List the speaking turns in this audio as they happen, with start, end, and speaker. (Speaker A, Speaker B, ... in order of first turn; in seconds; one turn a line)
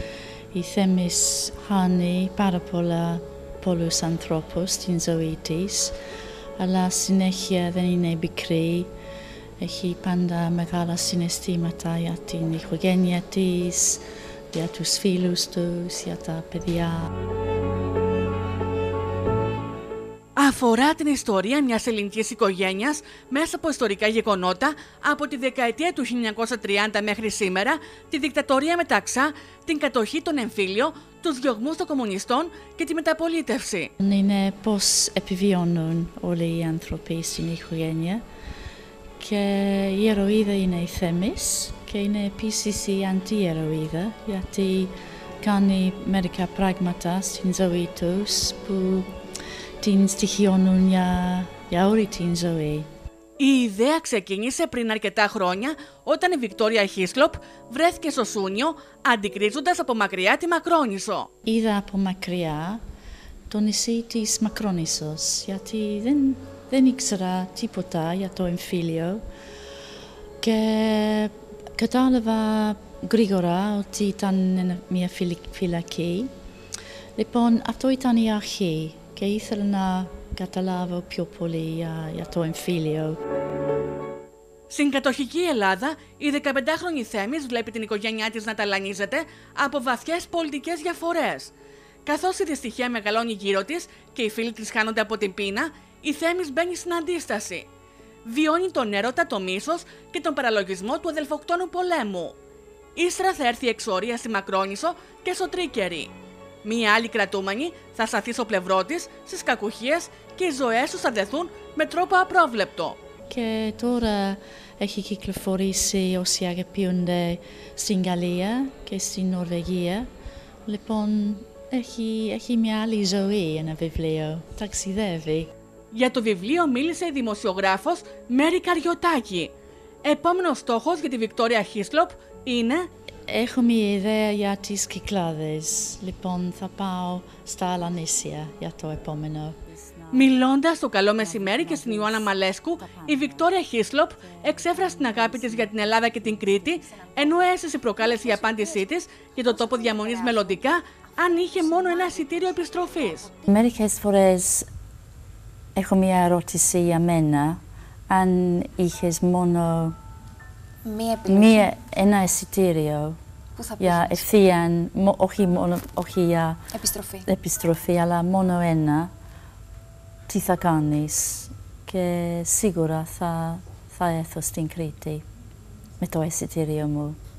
Speaker A: 0.5-6.0
Speaker A: 6.6-8.9
Speaker A: 9.6-17.1
Speaker B: 20.4-33.9
Speaker A: 34.0-38.2
Speaker A: 39.2-49.1
Speaker A: 49.8-52.9
Speaker B: 53.4-61.3
Speaker A: 61.5-62.8
Speaker A: 63.5-69.2
Speaker A: 70.4-76.3
Speaker A: 77.2-83.2
Speaker B: 84.7-91.5
Speaker B: 92.0-97.7
Speaker B: 98.2-102.4
Speaker B: 103.0-106.1
Speaker B: 106.6-113.0
Speaker A: 113.3-120.1
Speaker A: 120.7-125.5
Speaker B: 125.9-129.5
Speaker B: 130.0-132.9
Speaker A: 133.3-140.4
Speaker B: 140.1-153.3
Speaker A: 141.2-143.5
Speaker A: 144.2-146.9
Speaker C: 147.0-147.3
Speaker C: 148.2-149.0
Speaker C: 149.7-153.5
Speaker A: 153.5-154.7
Speaker A: 155.8-160.0
Speaker C: 160.8-161.7
Speaker A: 161.3-163.2
Speaker C: 163.6-164.3
Speaker A: 163.8-166.7
Speaker C: 166.7-167.3
Speaker A: 167.2-169.1
Speaker A: 170.3-175.2
Speaker A: 176.0-177.2